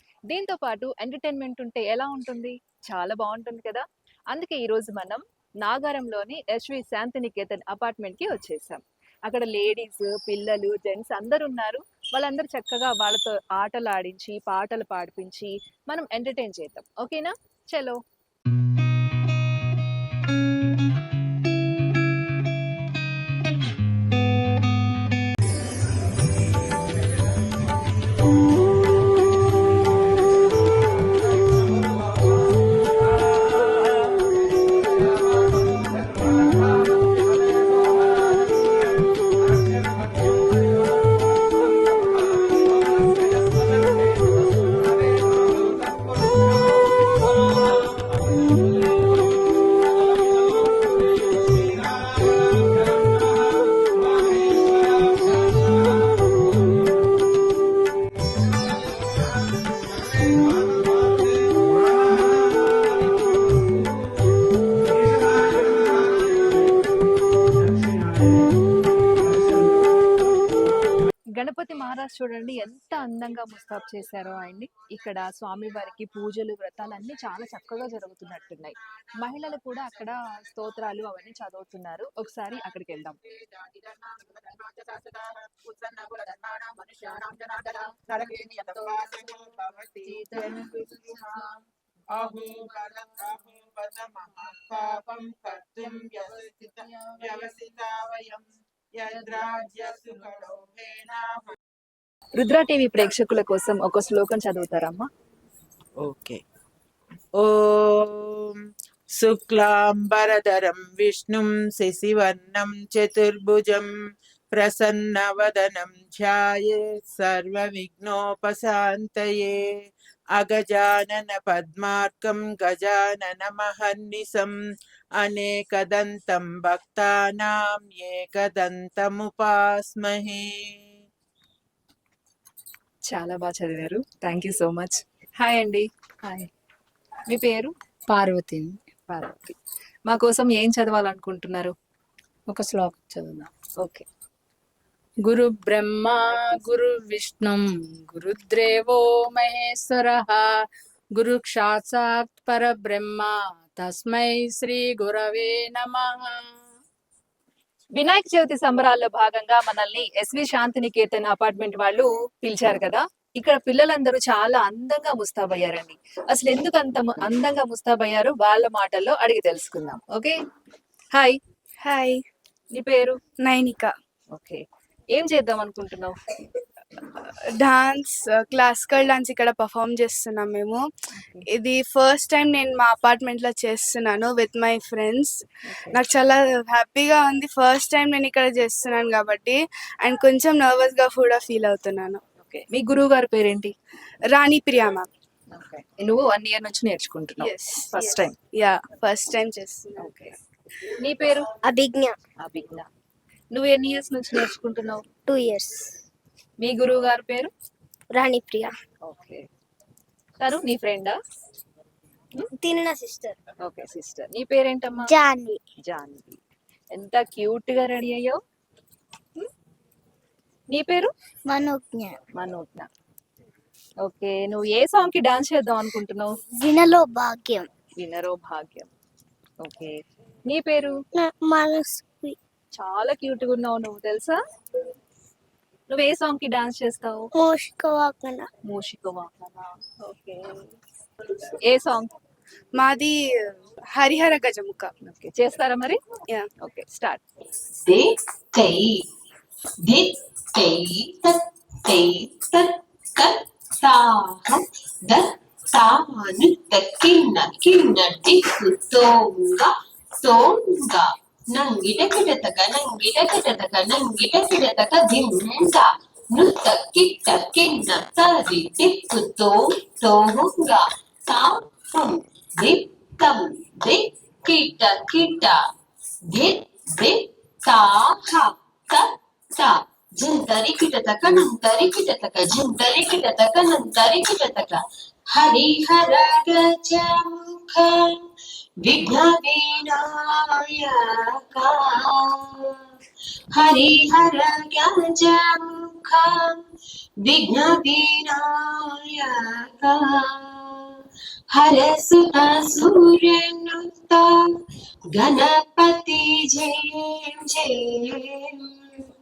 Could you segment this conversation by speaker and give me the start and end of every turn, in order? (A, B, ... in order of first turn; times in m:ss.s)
0:00.3-0:18.0 A
1:11.3-1:23.2 A
1:23.3-1:41.5 B
1:42.4-1:45.1 A
1:46.0-1:46.4 B
1:47.4-1:48.6 B
1:49.1-1:53.9 B
1:54.5-1:59.8 B
2:00.3-2:04.6 B
2:05.2-2:10.7 B
2:13.1-2:16.5 A
2:17.3-2:17.7 A
2:18.1-2:18.8 C
2:19.1-2:21.7 A
2:22.5-2:23.5 C
2:25.2-2:30.6 C
2:31.2-2:36.5 C
2:37.9-2:50.4 A
2:51.1-2:51.4 A
2:51.8-2:52.2 D
2:52.7-2:53.2 A
2:53.4-2:53.9 D
2:54.3-2:56.2 A
2:57.2-3:00.8 D
3:01.1-3:01.4 A
3:01.5-3:05.4 D
3:05.7-3:06.0 A
3:05.9-3:12.2 D
3:12.4-3:13.7 A
3:14.3-3:15.1 D
3:15.5-3:18.3 A
3:17.4-3:20.1 D
3:20.0-3:20.4 A
3:20.9-3:21.5 A
3:21.6-3:22.2 E
3:22.4-3:22.9 A
3:23.5-3:25.1 A
3:25.2-3:25.9 E
3:26.6-3:27.5 A
3:28.1-3:28.7 E
3:29.0-3:29.5 A
3:30.4-3:31.2 A
3:32.6-3:33.4 E
3:33.6-3:35.1 A
3:35.0-3:35.6 E
3:35.8-3:36.4 A
3:36.9-3:38.4 A
3:40.7-3:41.1 A
3:41.5-3:42.2 E
3:42.4-3:42.9 A
3:44.0-3:46.4 A
3:46.6-3:47.7 E
3:48.0-3:48.9 A
3:49.6-3:50.9 A
3:51.2-3:52.4 E
3:52.7-3:54.4 A
3:55.9-3:57.3 A
3:57.4-3:58.5 E
3:58.7-4:00.5 A
4:01.5-4:02.1 A
4:02.8-4:04.9 D
4:05.0-4:06.0 A
4:06.6-4:07.2 A
4:07.8-4:09.0 F
4:09.8-4:35.6 F
4:36.3-4:44.8 F
4:45.3-4:48.2 F
4:48.8-4:52.8 F
4:53.5-4:56.6 F
4:57.2-5:00.8 F
5:01.5-5:04.4 F
5:05.1-5:08.7 F